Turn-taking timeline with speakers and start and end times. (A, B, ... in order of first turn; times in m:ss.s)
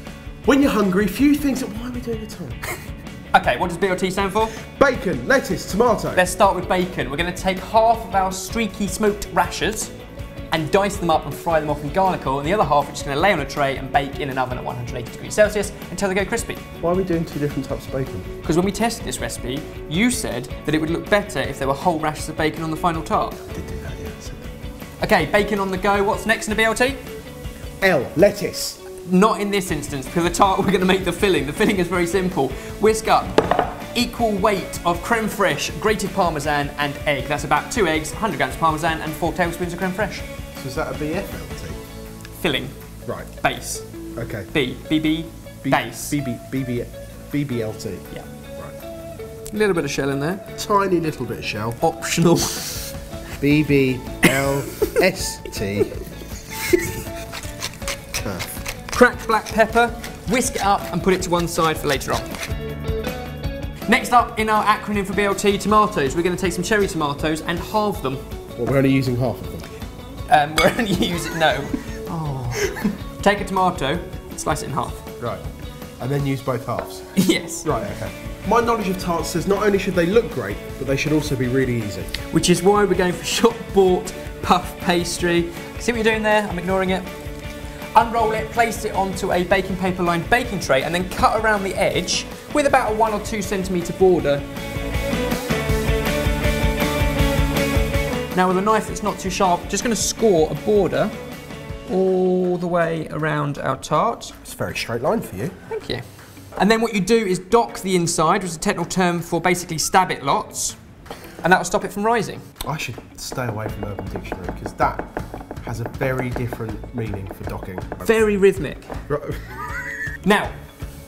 0:00.4-0:02.6 A
0:03.3-0:04.6 B
0:04.6-0:06.2 A
0:06.1-0:09.9 B
0:10.5-0:16.6 B
0:16.8-0:18.3 A
0:18.4-0:23.4 B
0:23.5-0:24.5 A
0:25.0-0:27.0 B
0:27.8-0:28.8 A
0:28.9-0:40.3 B
0:40.6-0:41.8 A
0:42.4-0:42.7 B
0:43.4-0:43.8 B
0:44.2-0:44.5 A
0:44.5-0:46.2 B
0:45.6-0:48.7 A
0:49.5-0:50.4 B
0:50.6-0:51.8 A
0:51.8-0:52.9 B
0:53.4-0:56.0 A
0:58.2-0:58.5 A
0:58.9-1:02.2 B
1:03.9-1:08.2 B
1:08.6-1:09.7 A
1:10.3-1:15.0 B
1:16.0-1:17.1 A
1:17.2-1:17.7 B
1:17.6-1:22.1 A
1:22.3-1:27.1 B
1:27.9-1:34.4 B
1:38.3-1:41.1 B
1:41.9-1:44.4 B
1:44.4-1:45.5 A
1:45.7-1:46.0 B
1:46.6-1:50.8 B
1:51.4-1:52.4 B
1:52.6-1:55.0 A
1:55.6-1:58.1 A
1:58.0-1:58.9 B
1:59.1-1:59.4 A
2:00.2-2:00.5 B